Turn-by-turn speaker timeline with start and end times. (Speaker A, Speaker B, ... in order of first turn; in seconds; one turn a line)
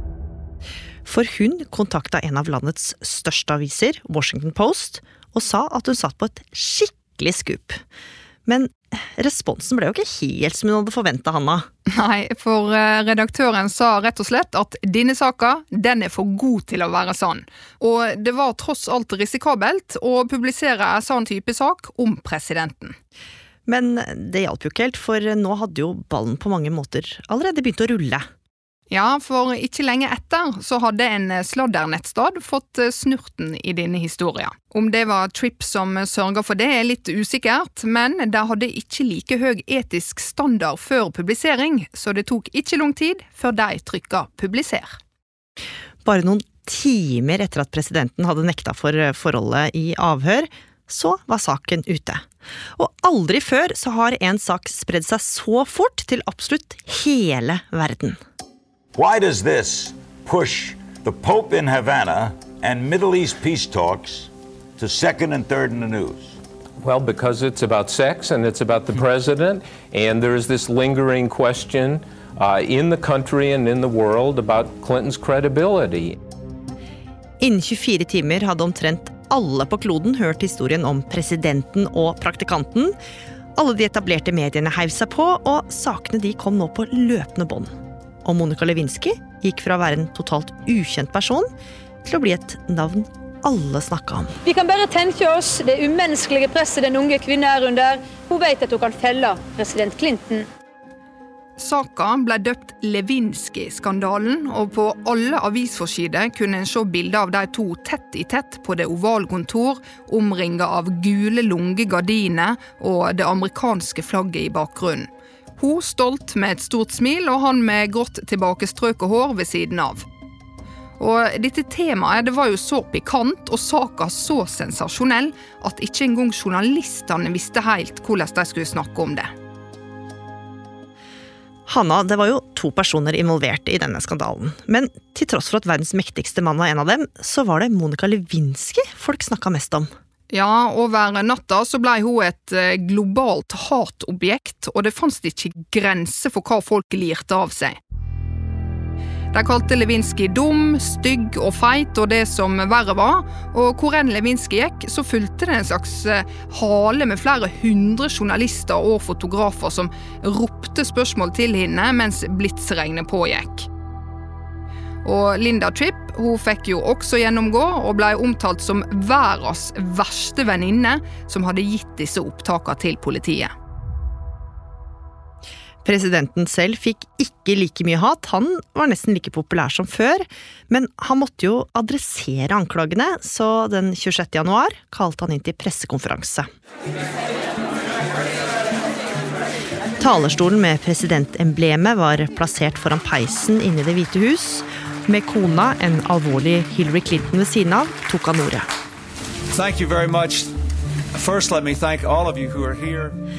Speaker A: 1.1-7.8
Speaker A: 8.5-11.7
Speaker B: 11.9-22.9
Speaker A: 23.7-28.3
Speaker B: 28.9-45.0
Speaker A: 46.0-52.2
Speaker A: 52.8-58.2
Speaker C: 59.0-66.4
Speaker D: 66.8-76.2
Speaker A: 77.4-83.0
Speaker A: 83.6-87.7
Speaker A: 88.2-91.5
Speaker A: 92.0-94.4
Speaker E: 94.4-100.5
Speaker B: 101.6-120.0
Speaker B: 121.0-129.3
Speaker A: 131.7-139.9
Speaker B: 140.3-147.8
Speaker B: 149.3-163.7
Speaker B: 165.0-173.5
Speaker A: 175.8-186.5
Speaker A: 190.0-198.7
Speaker F: 199.5-200.5
Speaker F: 201.2-203.2